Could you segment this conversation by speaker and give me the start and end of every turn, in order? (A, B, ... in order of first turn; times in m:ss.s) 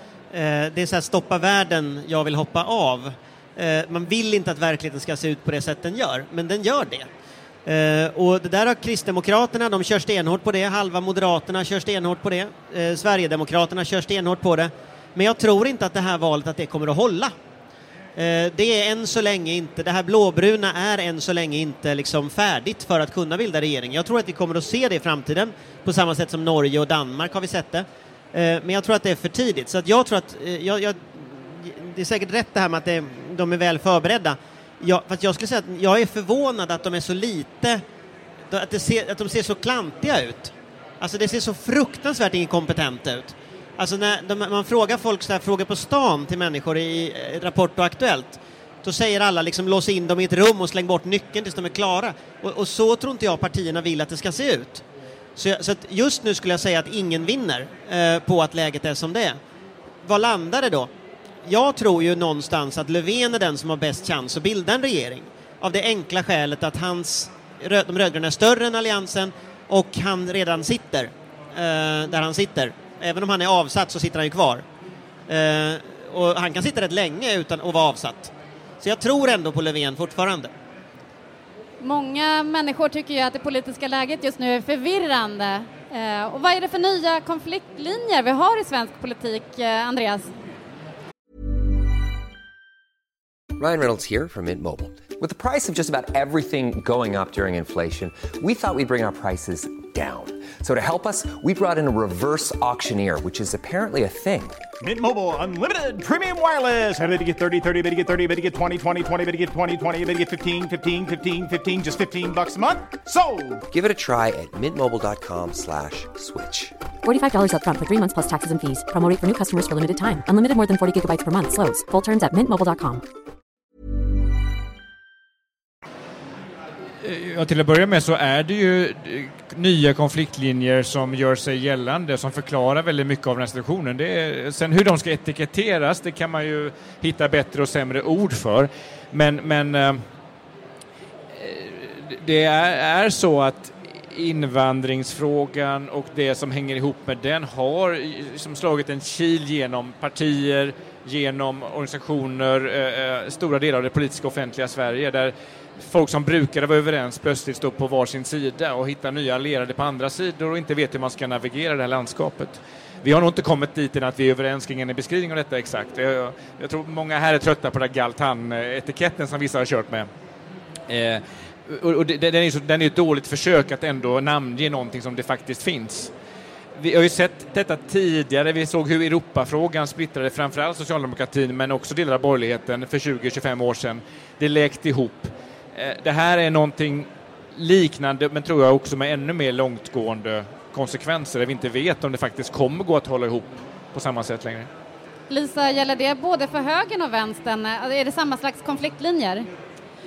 0:00.3-0:07.1 A
0:07.6-0:17.3 A
0:18.2-0:37.8 A
0:38.5-0:54.8 A
0:55.4-0:59.4 A
1:00.0-1:00.9 A
1:01.4-1:14.6 A
1:15.3-1:20.5 A
1:21.8-1:30.3 B
1:33.6-1:44.6 C
1:44.8-1:53.6 D
1:53.7-1:56.7 C
1:57.0-2:03.0 E
2:07.0-2:20.0 F
2:21.3-2:50.1 F
2:50.9-2:56.1 F
2:56.8-3:14.7 F
3:15.3-3:19.5 B